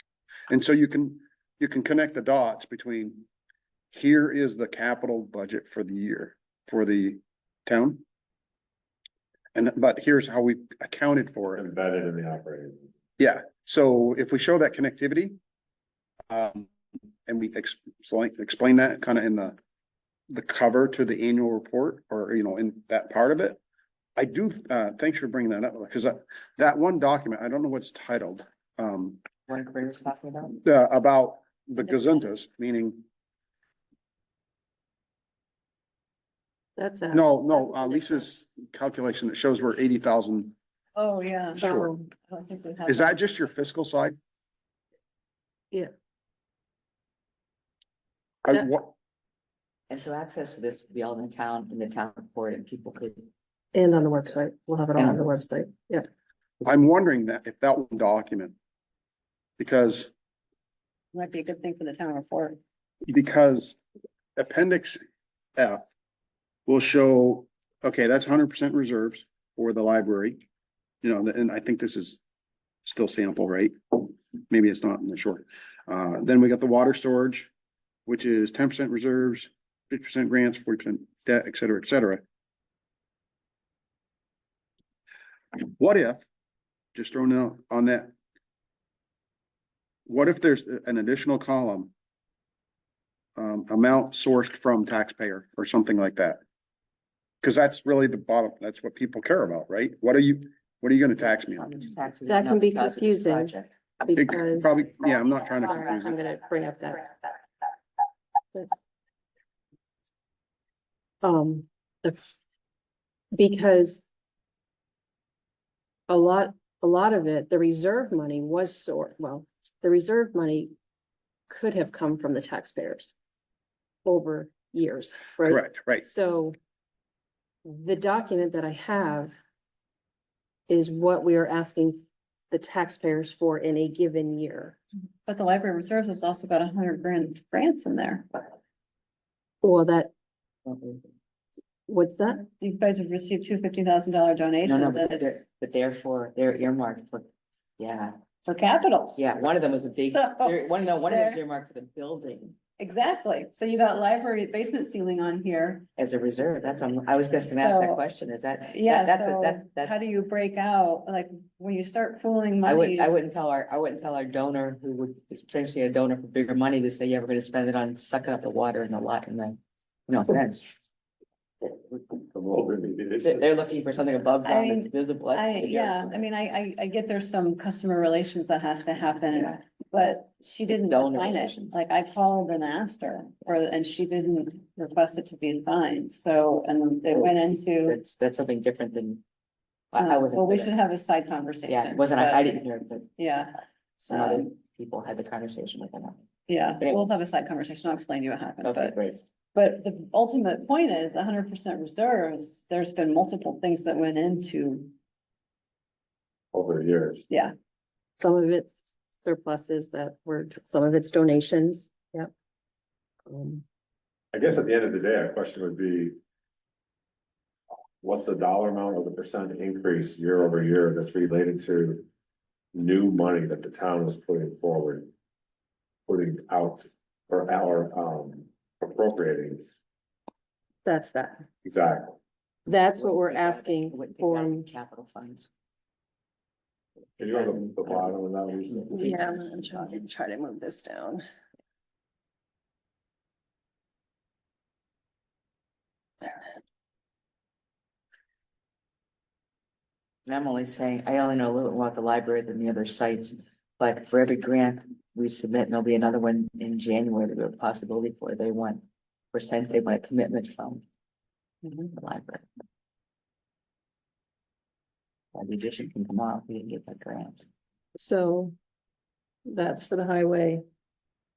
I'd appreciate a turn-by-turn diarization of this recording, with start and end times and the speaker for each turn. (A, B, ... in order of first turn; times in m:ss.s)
0:00.5-0:03.2 A
0:03.9-0:08.0 A
0:09.5-0:11.7 A
0:11.5-0:12.9 B
0:13.2-0:15.4 A
0:16.3-0:16.7 A
0:17.2-0:19.6 A
0:20.3-0:23.6 A
0:24.2-0:29.2 A
0:29.5-0:30.6 C
0:30.6-0:33.0 A
0:36.8-0:38.2 D
0:37.1-0:40.5 A
0:40.9-0:41.6 E
0:41.6-0:42.1 D
0:41.6-0:41.9 A
0:42.2-0:43.4 E
0:42.9-0:44.2 A
0:48.4-0:48.9 A
0:49.9-0:53.3 C
0:53.7-0:56.1 D
0:55.0-0:55.4 C
0:56.6-0:58.5 A
0:59.6-1:00.1 A
1:01.1-1:02.6 E
1:03.1-1:03.8 A
1:04.4-1:05.0 A
1:05.6-1:05.8 A
1:06.7-1:10.4 A
1:11.0-1:12.2 A
1:12.8-1:17.5 A
1:18.0-1:22.2 A
1:25.6-1:26.2 A
1:26.9-1:28.1 A
1:30.1-1:31.9 A
1:33.4-1:36.4 A
1:37.4-1:41.7 A
1:41.3-1:43.7 C
1:42.3-1:44.8 D
1:44.1-1:46.2 A
1:45.5-1:47.2 D
1:51.2-1:52.3 D
1:53.3-1:54.1 D
1:56.1-2:00.7 D
2:01.5-2:03.1 D
2:04.0-2:06.6 D
2:05.5-2:06.0 A
2:07.6-2:09.4 D
2:10.7-2:14.8 D
2:15.2-2:18.4 E
2:19.6-2:20.1 D
2:20.6-2:21.0 C
2:21.9-2:22.4 D
2:22.5-2:25.4 E
2:24.6-2:27.3 C
2:27.8-2:28.2 C
2:28.4-2:29.2 E
2:29.2-2:32.6 C
2:30.1-2:31.4 E
2:32.8-2:35.9 E
2:36.0-2:40.1 C
2:37.4-2:38.0 E
2:38.7-2:43.2 E
2:42.6-2:50.7 C
2:52.3-2:53.6 B
2:53.2-2:56.2 C
2:54.4-3:08.0 E
3:00.7-3:01.8 C
3:07.8-3:09.2 C
3:09.9-3:10.7 C
3:10.0-3:12.5 E
3:11.7-3:13.1 C
3:13.2-3:14.4 E
3:14.0-3:16.2 C
3:16.5-3:24.9 E
3:16.8-3:17.1 C
3:18.6-3:19.2 C
3:26.5-3:27.2 B
3:28.2-3:32.3 D
3:33.3-3:33.6 D
3:34.3-3:36.2 B
3:38.0-3:42.1 B
3:42.7-3:45.1 B
3:46.0-3:49.6 B
3:50.8-3:51.5 D
3:51.6-3:52.2 B
3:52.7-3:54.7 D
3:53.0-3:55.5 C
3:57.2-3:59.1 B
3:57.3-3:59.6 C
3:58.9-4:01.2 D
4:10.2-4:20.8 C
4:21.8-4:22.4 C
4:25.3-4:27.4 C
4:28.0-4:28.5 D
4:29.4-4:30.6 D